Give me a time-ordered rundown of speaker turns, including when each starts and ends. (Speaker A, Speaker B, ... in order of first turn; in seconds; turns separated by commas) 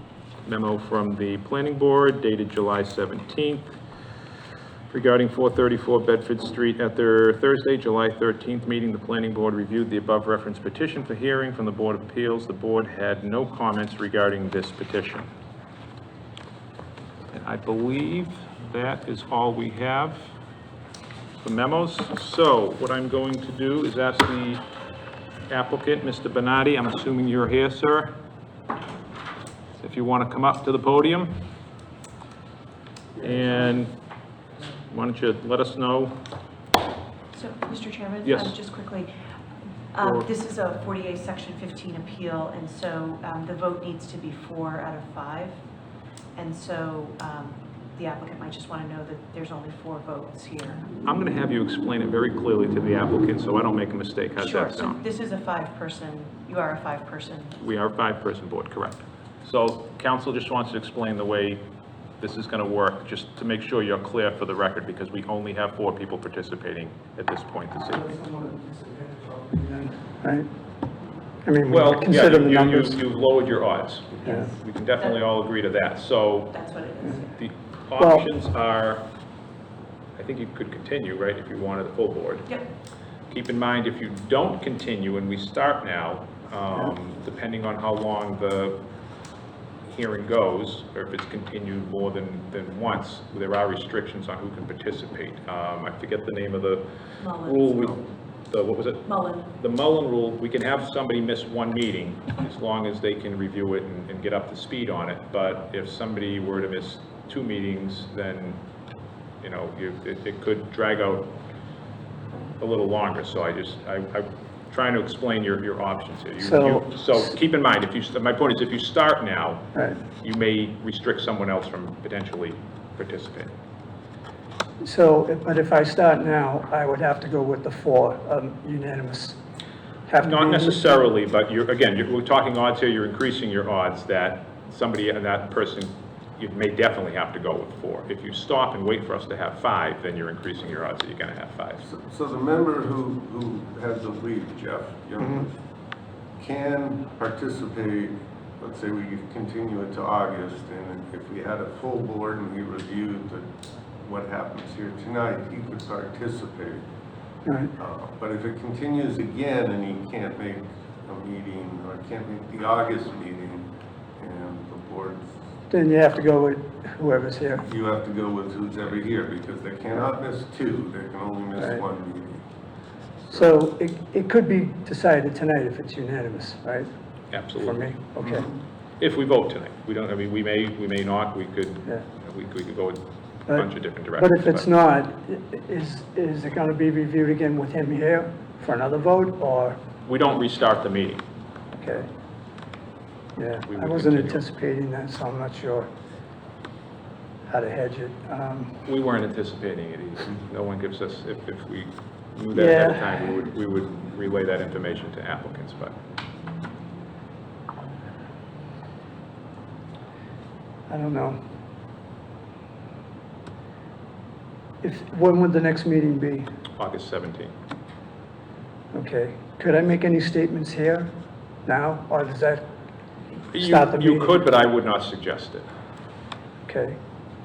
Speaker A: 0.4-3.7, Speaker A: 4.9-15.3, Speaker A: 17.3-20.3, Speaker A: 21.4-24.6, Speaker A: 25.5-28.2, Speaker A: 29.8-31.4, Speaker A: 33.2-33.9, Speaker A: 34.9-36.2, Speaker B: 37.3-39.1, Speaker A: 38.2-38.6, Speaker B: 39.9-45.6, Speaker A: 40.0-40.3, Speaker B: 46.4-50.9, Speaker A: 51.0-55.0, Speaker B: 54.4-57.6, Speaker A: 57.6-61.6, Speaker A: 62.2-68.0, Speaker C: 67.9-70.5, Speaker C: 71.4-73.0, Speaker A: 71.7-76.6, Speaker C: 74.2-74.5, Speaker B: 76.5-77.4, Speaker A: 77.3-79.1, Speaker C: 78.0-78.3, Speaker A: 80.2-82.5, Speaker A: 83.3-88.8, Speaker A: 89.8-96.9, Speaker B: 97.2-98.0, Speaker A: 97.4-108.6, Speaker B: 99.0-99.4, Speaker A: 109.4-111.4, Speaker A: 112.6-123.5, Speaker C: 116.4-117.2, Speaker C: 119.7-120.0, Speaker C: 124.8-129.4, Speaker C: 130.1-131.1, Speaker A: 130.2-141.9, Speaker D: 141.9-145.6, Speaker D: 146.4-153.5, Speaker D: 154.0-156.8, Speaker C: 157.4-157.7, Speaker D: 157.8-165.3, Speaker C: 165.7-167.7, Speaker D: 167.6-172.4, Speaker C: 171.6-171.8, Speaker C: 173.3-176.9, Speaker A: 177.3-177.9, Speaker C: 177.6-178.5, Speaker A: 179.0-184.7, Speaker C: 183.5-189.8, Speaker A: 190.1-191.2, Speaker C: 191.8-192.1, Speaker C: 193.4-195.9, Speaker A: 193.7-194.4, Speaker C: 197.5-198.8, Speaker A: 198.8-206.0, Speaker C: 202.5-203.4, Speaker C: 210.9-211.4, Speaker C: 214.8-216.5, Speaker A: 216.8-217.5, Speaker C: 218.9-221.1, Speaker C: 221.7-222.7, Speaker A: 223.5-225.7, Speaker C: 223.6-224.4, Speaker C: 226.7-227.0